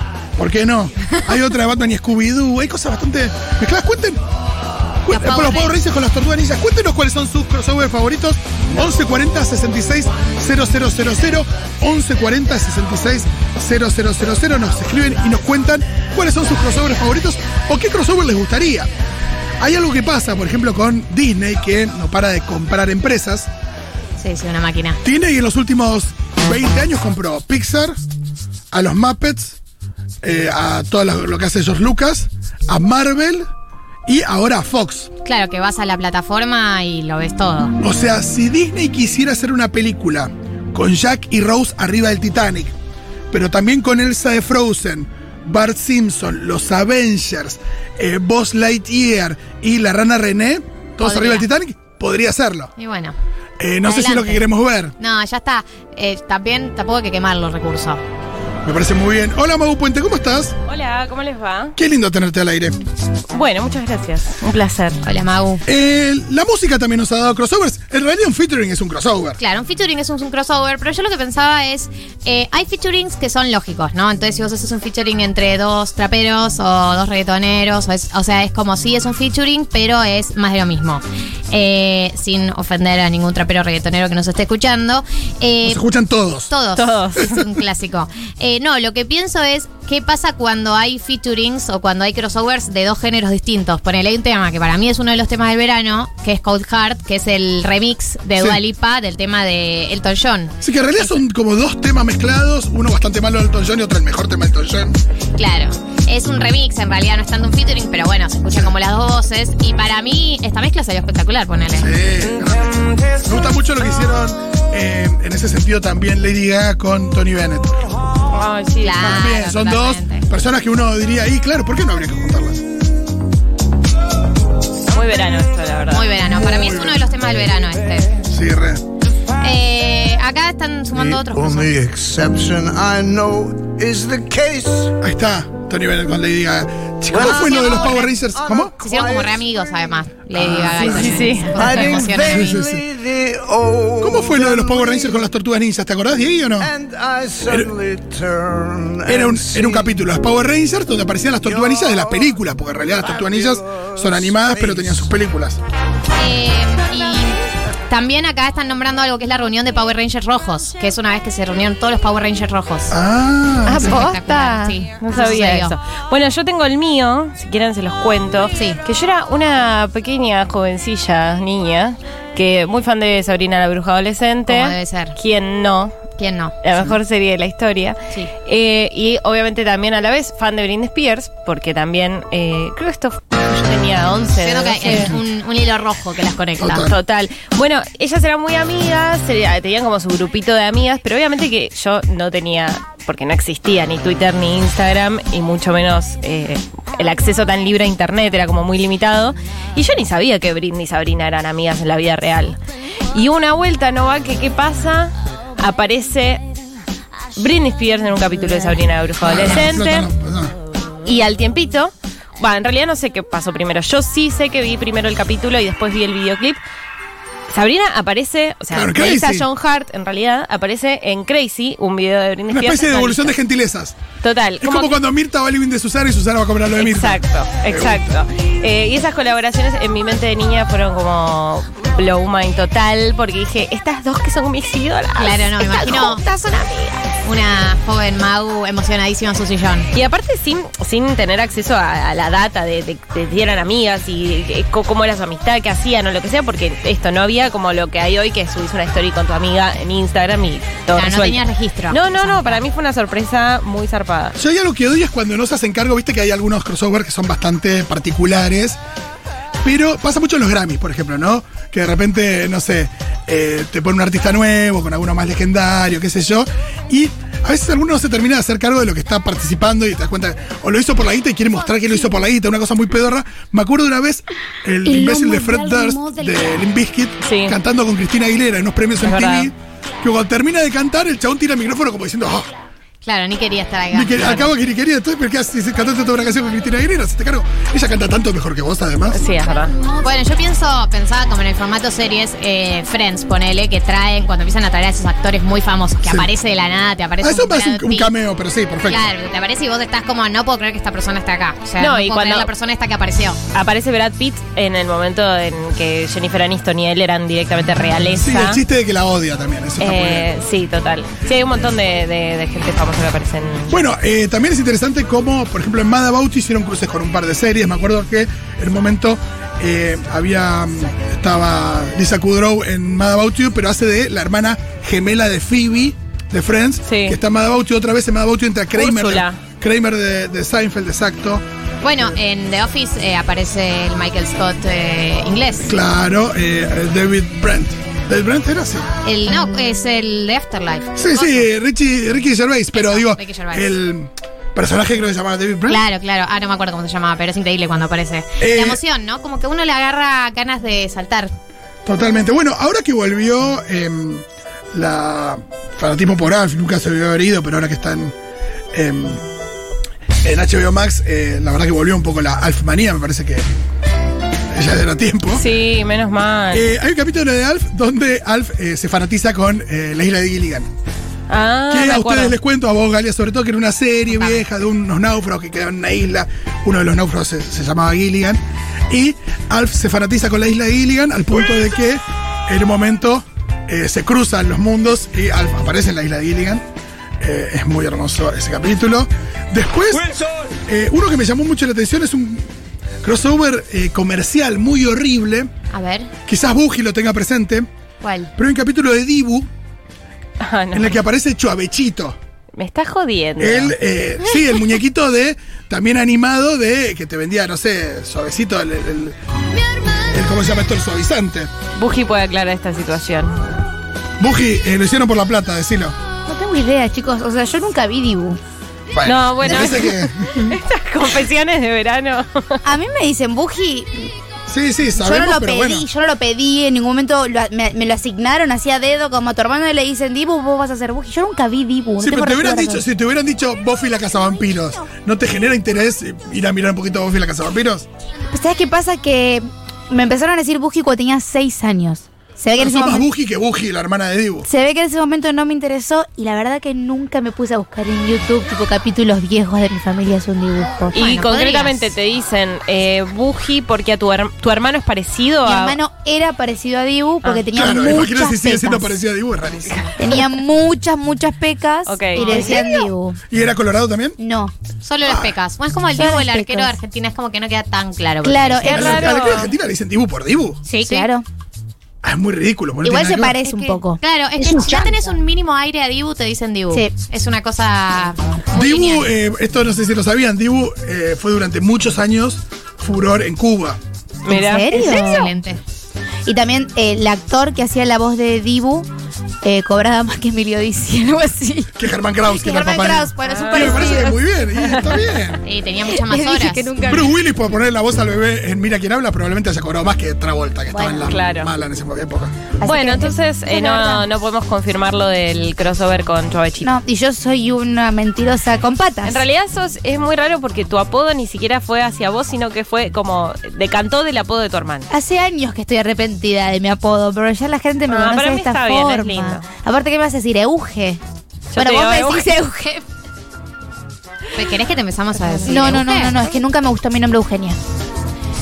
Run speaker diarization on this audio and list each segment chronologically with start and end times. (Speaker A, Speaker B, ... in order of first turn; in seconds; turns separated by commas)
Speaker A: 0.4-4.2, Speaker A: 5.0-18.9, Speaker B: 5.1-5.7, Speaker A: 19.6-23.5, Speaker B: 24.2-25.0, Speaker A: 25.0-28.0, Speaker A: 28.7-29.6, Speaker A: 30.2-33.5, Speaker A: 34.0-35.1, Speaker B: 35.2-37.8, Speaker A: 37.8-42.7, Speaker A: 43.3-52.7, Speaker B: 51.0-51.5, Speaker B: 52.8-53.1, Speaker A: 53.6-54.9, Speaker B: 53.8-54.4, Speaker B: 55.0-58.0, Speaker A: 58.6-60.5, Speaker C: 60.6-61.7, Speaker A: 61.8-62.8, Speaker C: 63.3-65.0, Speaker B: 65.0-65.6, Speaker A: 65.7-69.4, Speaker B: 69.4-85.8, Speaker A: 85.6-86.5, Speaker B: 86.5-101.2, Speaker C: 86.8-87.4, Speaker A: 100.6-104.9, Speaker B: 105.4-111.9, Speaker A: 111.7-117.9, Speaker C: 118.3-119.2, Speaker B: 118.8-120.3, Speaker A: 119.0-122.6, Speaker C: 124.9-126.1, Speaker B: 125.9-128.2, Speaker A: 126.3-127.1, Speaker A: 128.3-128.8, Speaker B: 129.4-131.7, Speaker D: 130.9-135.0, Speaker A: 135.0-138.7, Speaker D: 137.1-139.4, Speaker B: 137.1-138.1, Speaker B: 138.8-142.7, Speaker A: 140.3-141.3, Speaker C: 140.8-142.0, Speaker D: 141.5-145.3, Speaker A: 142.2-142.8, Speaker A: 144.0-146.7, Speaker D: 146.6-150.0, Speaker A: 149.1-155.6, Speaker D: 151.4-155.1, Speaker B: 156.1-162.9, Speaker A: 162.9-164.0, Speaker C: 163.7-175.9, Speaker B: 163.7-165.7, Speaker B: 168.5-168.8, Speaker B: 174.5-175.2, Speaker B: 176.2-176.6, Speaker C: 176.6-185.1, Speaker B: 184.4-186.9, Speaker A: 186.6-186.9, Speaker C: 186.8-202.6, Speaker C: 203.1-206.4, Speaker C: 207.3-210.1, Speaker A: 209.2-210.5, Speaker C: 211.0-216.6, Speaker C: 217.5-223.3, Speaker A: 218.7-219.5, Speaker A: 222.5-224.0, Speaker C: 224.2-225.0, Speaker A: 224.6-228.1, Speaker C: 226.8-237.0, Speaker B: 235.2-236.2, Speaker B: 237.2-239.9, Speaker C: 239.9-251.4, Speaker B: 250.9-252.6, Speaker C: 251.9-254.4, Speaker A: 254.4-258.8, Speaker A: 259.6-282.5, Speaker E: 274.9-276.2, Speaker C: 277.2-277.6, Speaker C: 279.0-279.5, Speaker B: 283.0-284.5, Speaker A: 283.9-289.2, Speaker C: 289.1-289.7, Speaker B: 290.0-298.1, Speaker A: 297.2-299.1, Speaker B: 298.9-303.4, Speaker C: 301.8-302.5, Speaker C: 303.5-308.6, Speaker A: 308.2-310.3, Speaker C: 309.8-313.7, Speaker A: 313.7-331.4, Speaker C: 326.8-327.2, Speaker C: 328.7-329.4, Speaker B: 331.8-335.7, Speaker A: 335.6-338.9, Speaker B: 339.0-341.5, Speaker A: 340.9-345.8, Speaker B: 342.7-343.8, Speaker B: 345.7-351.3, Speaker A: 348.4-348.8, Speaker A: 351.8-358.1, Speaker A: 358.7-359.2, Speaker A: 360.2-363.5, Speaker A: 364.5-365.4, Speaker C: 365.3-366.7, Speaker A: 366.5-370.7, Speaker C: 371.3-372.4, Speaker A: 371.7-386.6, Speaker B: 374.1-374.4, Speaker A: 387.2-392.5, Speaker A: 393.0-395.5, Speaker B: 395.7-396.1, Speaker A: 396.2-397.7, Speaker B: 398.0-398.3, Speaker A: 398.4-399.5, Speaker C: 400.4-401.0, Speaker A: 400.7-402.2, Speaker C: 402.6-403.7, Speaker A: 403.4-409.2, Speaker A: 410.1-411.5, Speaker C: 411.8-413.4, Speaker A: 414.2-415.9, Speaker E: 416.3-418.4, Speaker A: 418.9-420.5, Speaker C: 419.0-422.6, Speaker E: 422.6-424.1, Speaker A: 424.5-425.8, Speaker E: 424.9-432.8, Speaker A: 432.0-437.9, Speaker E: 438.3-443.1, Speaker A: 442.6-444.5, Speaker E: 444.4-450.9, Speaker C: 450.9-455.8, Speaker B: 450.9-451.9, Speaker E: 455.4-458.9, Speaker A: 457.5-459.9, Speaker E: 460.0-463.2, Speaker C: 461.9-462.6, Speaker B: 462.3-462.5, Speaker A: 463.3-464.2, Speaker E: 464.2-464.5, Speaker B: 464.8-469.1, Speaker A: 465.0-465.3, Speaker E: 465.9-466.8, Speaker E: 468.2-469.4, Speaker C: 468.6-469.5, Speaker A: 468.7-470.6, Speaker E: 470.6-471.2, Speaker B: 470.8-471.1, Speaker A: 472.0-473.4, Speaker E: 472.8-475.1, Speaker B: 473.4-479.1, Speaker A: 478.5-483.8, Speaker C: 484.2-485.2, Speaker E: 484.3-485.4, Speaker B: 484.7-485.6, Speaker E: 486.2-488.9, Speaker E: 489.4-491.7, Speaker A: 491.8-495.4, Speaker E: 492.2-494.8, Speaker C: 493.2-494.0, Speaker C: 494.7-494.9, Speaker B: 495.4-496.7, Speaker E: 495.8-497.1, Speaker A: 496.8-502.5, Speaker E: 500.7-501.1, Speaker C: 501.0-501.5, Speaker E: 502.6-504.1, Speaker C: 502.6-506.7, Speaker E: 506.6-509.2, Speaker C: 509.0-514.9, Speaker E: 514.9-521.0, Speaker C: 517.9-519.4, Speaker C: 521.5-522.3, Speaker E: 521.5-522.8, Speaker B: 524.3-526.2, Speaker C: 525.3-525.8, Speaker E: 525.5-527.6